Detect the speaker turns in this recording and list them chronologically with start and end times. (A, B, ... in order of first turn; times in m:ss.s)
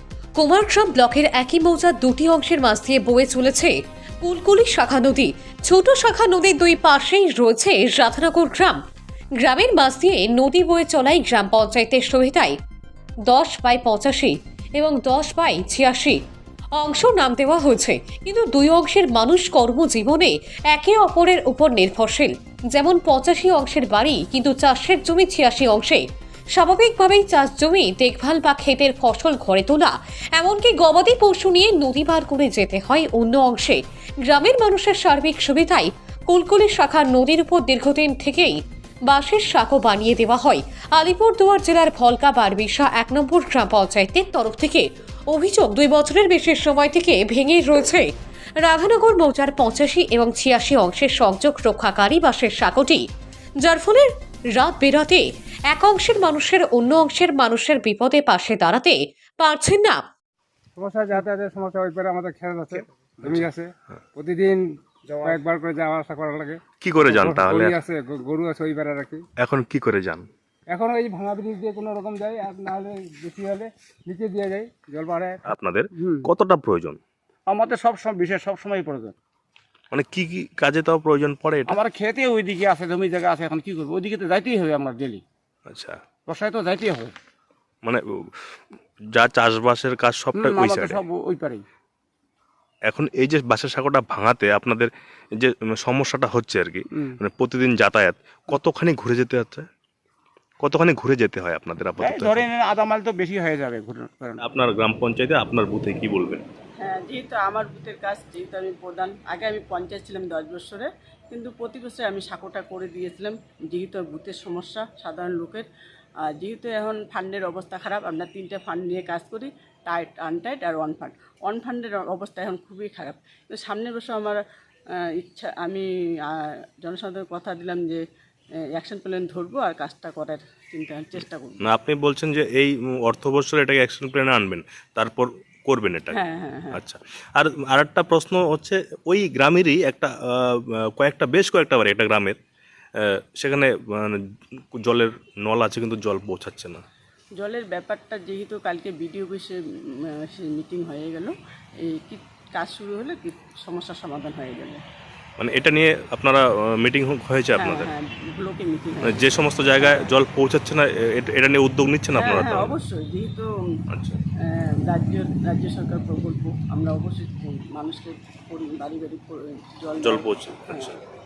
0:00.4-0:08.8 A
0:09.4-0:12.5 A
0:13.3-0:16.2 A
0:16.8-0:48.1 A
0:48.6-0:53.0 A
0:53.6-1:00.0 A
1:00.8-1:09.2 B
1:06.8-1:07.8 C
1:09.4-1:10.3 C
1:10.7-1:15.4 B
1:15.5-1:17.0 C
1:16.0-1:16.2 B
1:17.5-1:19.1 D
1:19.9-1:21.8 C
1:21.7-1:25.2 D
1:25.7-1:26.0 C
1:26.3-1:27.1 D
1:27.8-1:28.4 C
1:29.1-1:31.0 C
1:30.3-1:31.6 D
1:32.9-1:39.7 C
1:40.6-1:42.4 C
1:42.0-1:44.4 D
1:44.4-1:46.4 C
1:46.8-1:55.7 E
1:56.4-2:04.4 E
2:05.1-2:08.0 E
2:08.7-2:11.6 E
2:11.6-2:16.2 C
2:16.1-2:16.8 E
2:16.7-2:22.4 C
2:23.0-2:24.2 C
2:24.7-2:26.8 C
2:27.4-2:34.8 E
2:35.4-2:37.9 C
2:37.6-2:40.1 E
2:39.1-2:42.7 C
2:42.2-2:43.5 E
2:43.9-2:44.2 C
2:44.5-2:50.9 E
2:50.0-2:50.9 C